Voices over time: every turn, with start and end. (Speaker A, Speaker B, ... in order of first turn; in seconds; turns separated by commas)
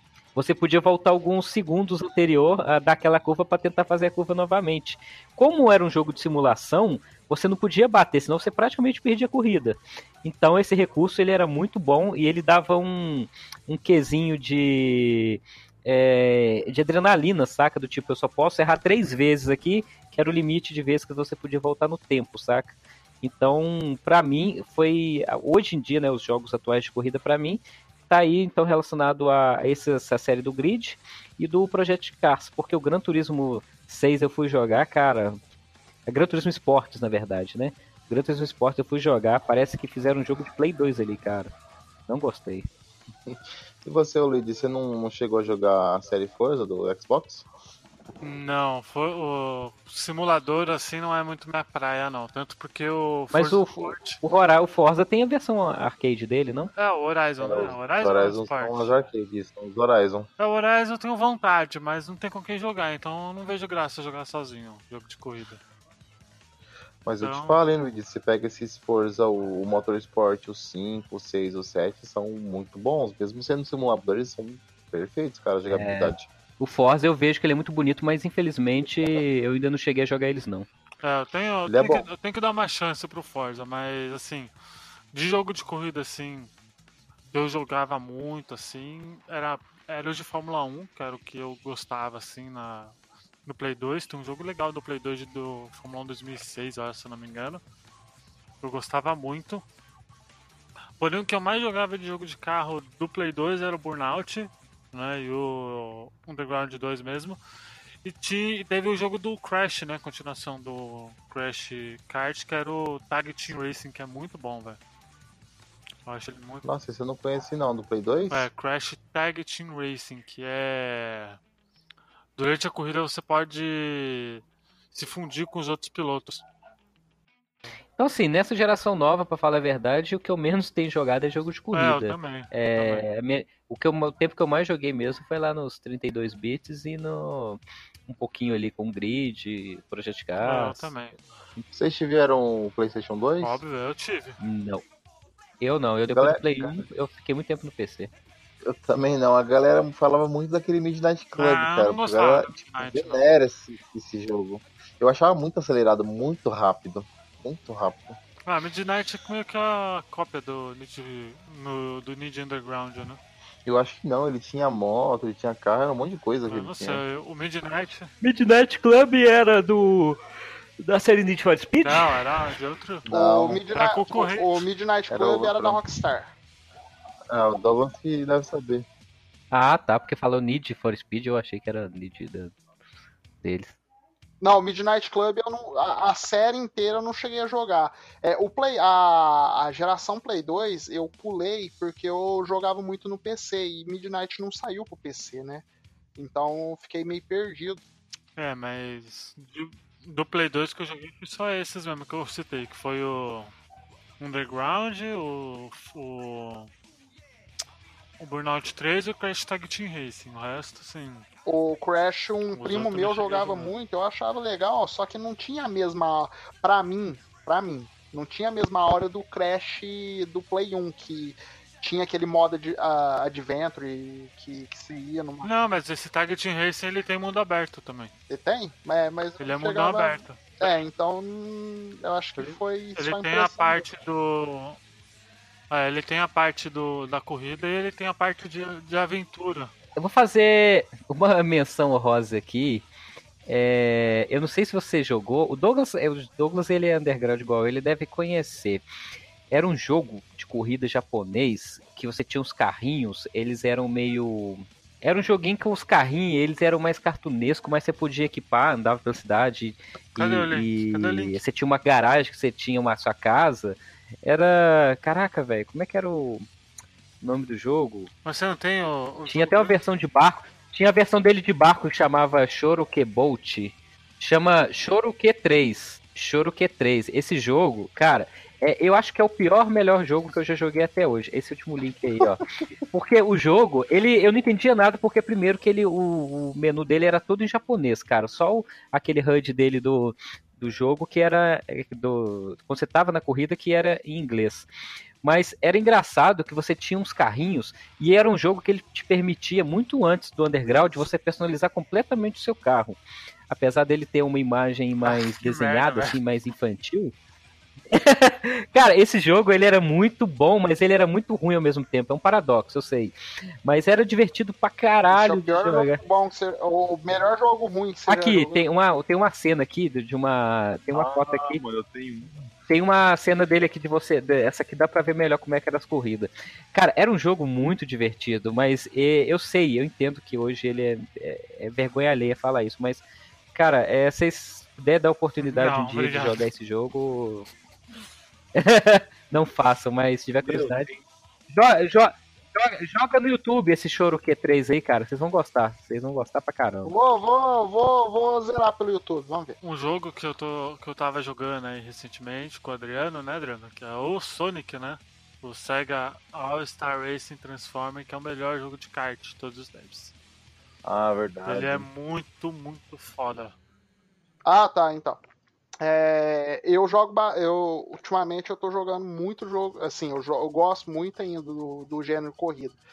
Speaker A: 0.3-35.4, Speaker A: 36.1-41.5, Speaker A: 42.1-42.7, Speaker B: 43.3-47.5, Speaker C: 48.2-54.2, Speaker A: 53.3-56.7, Speaker C: 56.8-58.9, Speaker B: 57.4-60.3, Speaker C: 60.4-65.6, Speaker B: 67.0-76.3, Speaker C: 67.2-67.6, Speaker A: 75.7-80.7, Speaker C: 81.0-84.5, Speaker B: 81.7-82.1, Speaker C: 85.1-86.5, Speaker C: 87.3-97.6, Speaker C: 98.6-99.6, Speaker C: 101.0-107.4, Speaker C: 108.0-114.8, Speaker C: 116.0-116.7, Speaker B: 116.6-118.5, Speaker C: 118.3-121.4, Speaker C: 122.3-126.5, Speaker A: 128.0-140.9, Speaker C: 131.7-133.1, Speaker C: 140.4-141.2, Speaker B: 141.7-143.6, Speaker C: 143.4-144.4, Speaker A: 144.4-144.8, Speaker A: 145.6-148.1, Speaker B: 146.1-146.8, Speaker B: 148.6-158.2, Speaker C: 151.3-153.3, Speaker C: 158.5-163.2, Speaker B: 163.6-167.0, Speaker C: 166.5-168.1, Speaker A: 168.2-170.2, Speaker A: 170.8-172.1, Speaker C: 171.8-173.1, Speaker B: 173.1-173.6, Speaker D: 173.1-176.3, Speaker C: 173.7-174.7, Speaker B: 175.1-175.8, Speaker B: 177.3-178.8, Speaker A: 179.5-182.5, Speaker A: 183.4-183.7, Speaker D: 184.4-195.6, Speaker D: 196.2-197.8, Speaker C: 198.4-203.5, Speaker C: 204.2-206.7, Speaker C: 208.2-211.2, Speaker D: 211.4-225.5, Speaker C: 212.5-213.7, Speaker C: 225.4-228.1, Speaker D: 228.3-233.8, Speaker C: 229.4-230.7, Speaker C: 232.3-234.8, Speaker C: 235.7-239.7, Speaker A: 239.9-242.8, Speaker A: 243.4-248.8, Speaker A: 249.5-266.4, Speaker C: 260.1-261.4, Speaker A: 267.2-268.1, Speaker C: 268.2-269.8, Speaker A: 269.3-294.7, Speaker A: 295.2-303.0, Speaker A: 303.5-307.1, Speaker C: 305.0-306.2, Speaker A: 307.9-316.0, Speaker D: 315.1-318.7, Speaker A: 318.1-321.6, Speaker B: 320.9-322.5, Speaker A: 322.7-333.0, Speaker A: 333.5-337.5, Speaker C: 335.4-336.5, Speaker A: 338.5-340.9, Speaker B: 340.4-341.0, Speaker A: 341.5-346.9, Speaker D: 346.8-349.6, Speaker C: 349.6-360.1, Speaker B: 360.8-361.9, Speaker C: 361.4-363.5, Speaker D: 364.4-365.2, Speaker D: 365.8-372.8